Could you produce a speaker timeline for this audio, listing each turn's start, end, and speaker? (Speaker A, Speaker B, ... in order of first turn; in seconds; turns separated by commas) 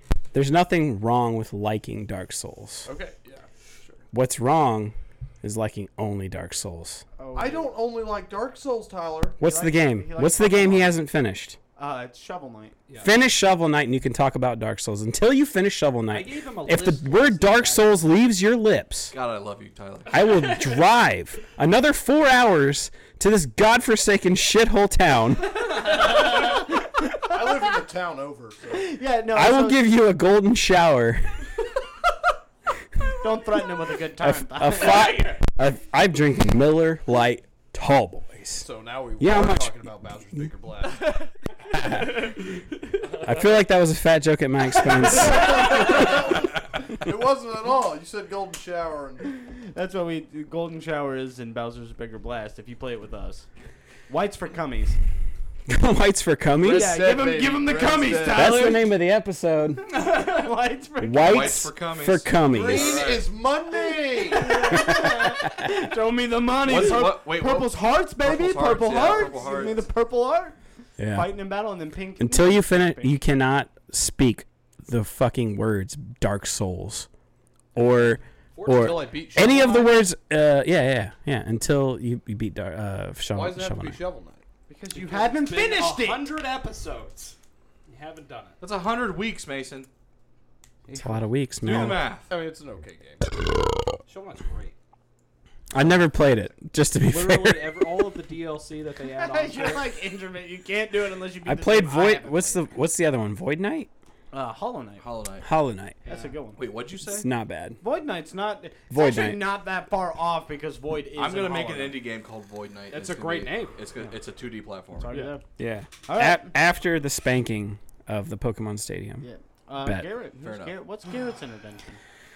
Speaker A: 0.3-2.9, Speaker B: 2.9-4.0, Speaker A: 4.1-7.0, Speaker C: 7.2-7.8, Speaker B: 7.3-9.4, Speaker A: 9.4-11.6, Speaker C: 9.4-11.0, Speaker C: 11.8-12.8, Speaker D: 12.9-13.1, Speaker A: 13.0-19.1, Speaker D: 16.1-18.0, Speaker E: 19.1-20.7, Speaker A: 20.1-25.6, Speaker C: 25.9-27.7, Speaker B: 27.2-28.9, Speaker C: 28.7-29.8, Speaker A: 29.3-31.5, Speaker C: 33.1-35.3, Speaker A: 34.2-38.7, Speaker B: 38.6-41.1, Speaker A: 39.2-39.8, Speaker A: 41.7-42.3, Speaker D: 41.8-42.4, Speaker B: 43.1-43.5, Speaker A: 43.2-46.0, Speaker B: 45.1-49.3, Speaker C: 49.4-53.5, Speaker C: 54.1-55.0, Speaker A: 55.7-57.0, Speaker B: 56.6-58.8, Speaker C: 56.6-59.0, Speaker A: 58.3-59.9, Speaker C: 59.9-61.7, Speaker A: 61.0-63.1, Speaker E: 61.2-63.4, Speaker B: 62.5-64.8, Speaker C: 64.0-70.5, Speaker A: 64.7-65.5, Speaker E: 66.6-69.9, Speaker B: 66.7-67.0, Speaker A: 71.0-71.3, Speaker C: 71.1-73.1, Speaker A: 72.2-77.1, Speaker A: 77.8-84.0, Speaker B: 78.6-79.8, Speaker D: 79.3-79.6, Speaker B: 83.3-84.4, Speaker C: 84.7-86.4, Speaker D: 84.9-87.4, Speaker D: 87.9-88.6, Speaker E: 88.6-89.9, Speaker C: 90.9-91.3, Speaker A: 90.9-92.0, Speaker E: 91.6-92.3, Speaker B: 92.3-93.4, Speaker D: 94.1-94.8, Speaker A: 95.7-97.9, Speaker D: 97.0-99.9, Speaker C: 99.1-102.6, Speaker A: 101.5-103.9, Speaker C: 104.3-105.1, Speaker E: 105.0-105.5, Speaker A: 105.4-106.0, Speaker D: 106.0-106.4, Speaker C: 106.1-106.6, Speaker E: 106.6-107.3, Speaker A: 107.1-107.8, Speaker C: 107.8-112.0, Speaker A: 108.9-109.5, Speaker E: 111.2-115.2, Speaker D: 112.9-113.8, Speaker C: 115.0-115.5, Speaker D: 115.1-115.3, Speaker A: 115.6-119.3, Speaker C: 116.1-116.5, Speaker C: 119.2-122.0, Speaker A: 119.8-120.1, Speaker E: 120.4-120.8